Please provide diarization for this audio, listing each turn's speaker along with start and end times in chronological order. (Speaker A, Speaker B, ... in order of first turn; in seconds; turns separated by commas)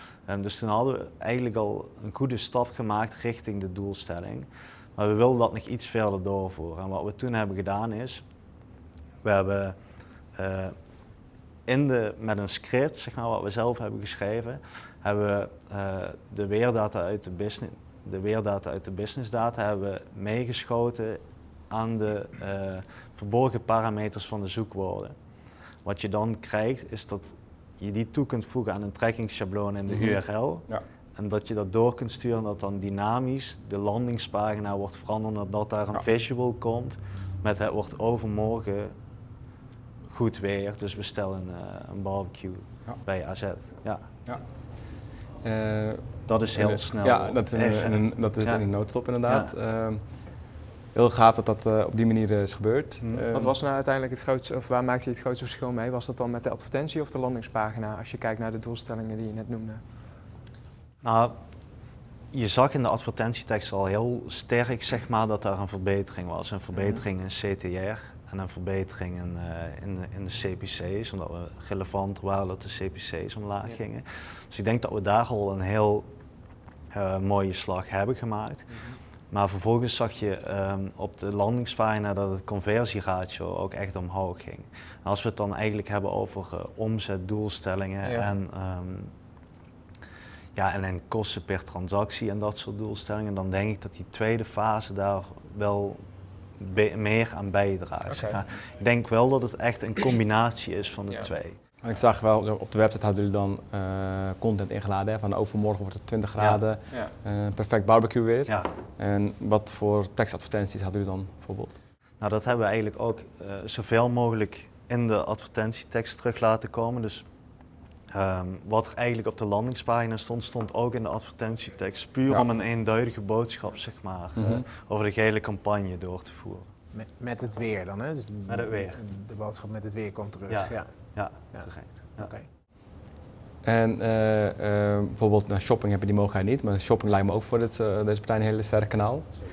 Speaker A: 0.3-8.2, Speaker A: 9.2-9.8, Speaker A: 10.3-10.7, Speaker A: 11.7-25.1, Speaker A: 25.8-38.9, Speaker B: 29.9-30.8, Speaker A: 40.1-44.0, Speaker B: 44.2-53.5, Speaker A: 46.2-48.6, Speaker A: 49.2-49.5, Speaker A: 53.0-53.2, Speaker C: 53.3-59.8, Speaker A: 61.0-61.3, Speaker A: 62.3-76.1, Speaker C: 66.8-67.0, Speaker A: 76.9-78.7, Speaker A: 79.3-89.1, Speaker A: 90.5-96.0, Speaker A: 96.6-101.6, Speaker C: 98.1-98.4, Speaker B: 101.8-111.7, Speaker A: 106.4-106.6, Speaker A: 112.2-117.2, Speaker A: 118.1-126.7, Speaker B: 124.3-124.6, Speaker D: 126.9-130.9, Speaker A: 128.5-129.0, Speaker A: 130.5-132.3, Speaker D: 132.2-132.5, Speaker B: 133.6-139.4